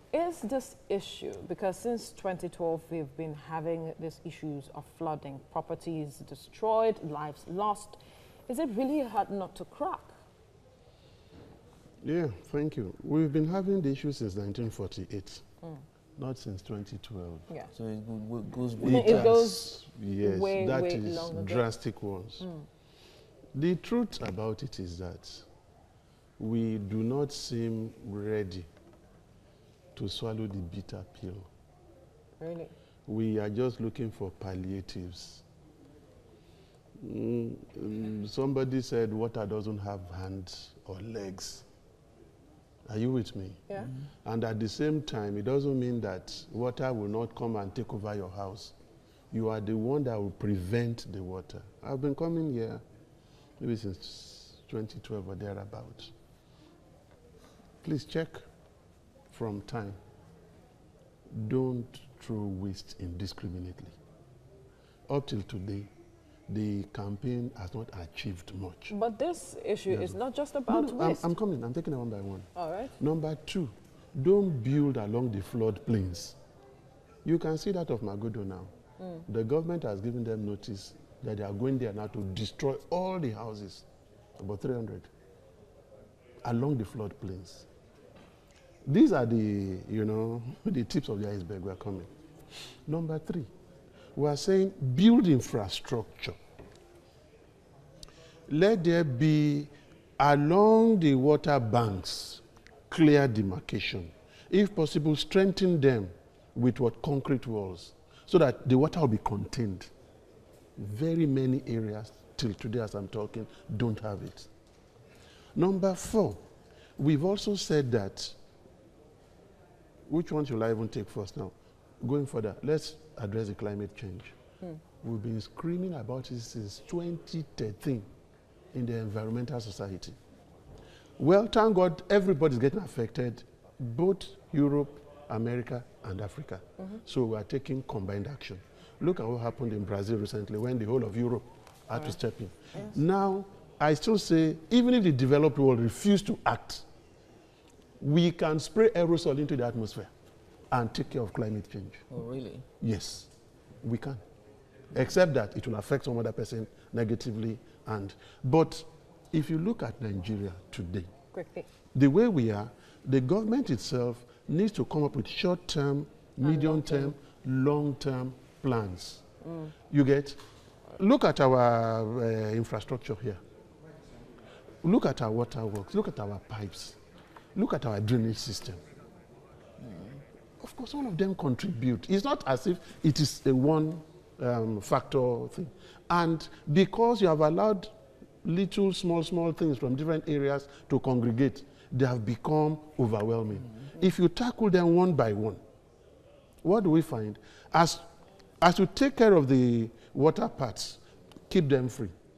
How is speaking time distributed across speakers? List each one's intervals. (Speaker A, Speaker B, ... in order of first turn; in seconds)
Speaker A: 0.1-10.1, 18.8-21.6, 32.4-32.7, 68.9-71.3, 72.5-72.9, 161.3-161.7, 166.4-167.1, 169.4-169.7
Speaker B: 12.0-15.4, 16.2-17.5, 18.8-22.5, 23.5-25.5, 26.4-28.7, 29.9-31.5, 33.1-35.4, 37.0-41.6, 42.9-48.7, 49.3-52.8, 53.6-56.1, 57.8-58.4, 59.3-60.0, 61.3-64.0, 65.1-65.9, 66.5-68.9, 69.9-76.4, 77.2-78.7, 79.3-83.8, 84.4-85.1, 86.4-87.7, 88.8-92.1, 92.8-93.5, 94.1-96.3, 98.5-109.9, 110.8-114.5, 115.5-116.4, 117.0-118.4, 120.1-124.3, 125.0-128.1, 128.7-130.2, 131.2-146.8, 148.0-150.1, 150.7-152.0, 152.8-154.2, 154.9-161.1, 161.9-169.2, 169.9-170.4, 170.9-173.4, 174.8-177.0, 177.5-178.8, 180.6-195.6, 196.6-198.0, 198.6-202.1
Speaker C: 17.7-19.3, 152.1-152.6, 179.8-180.2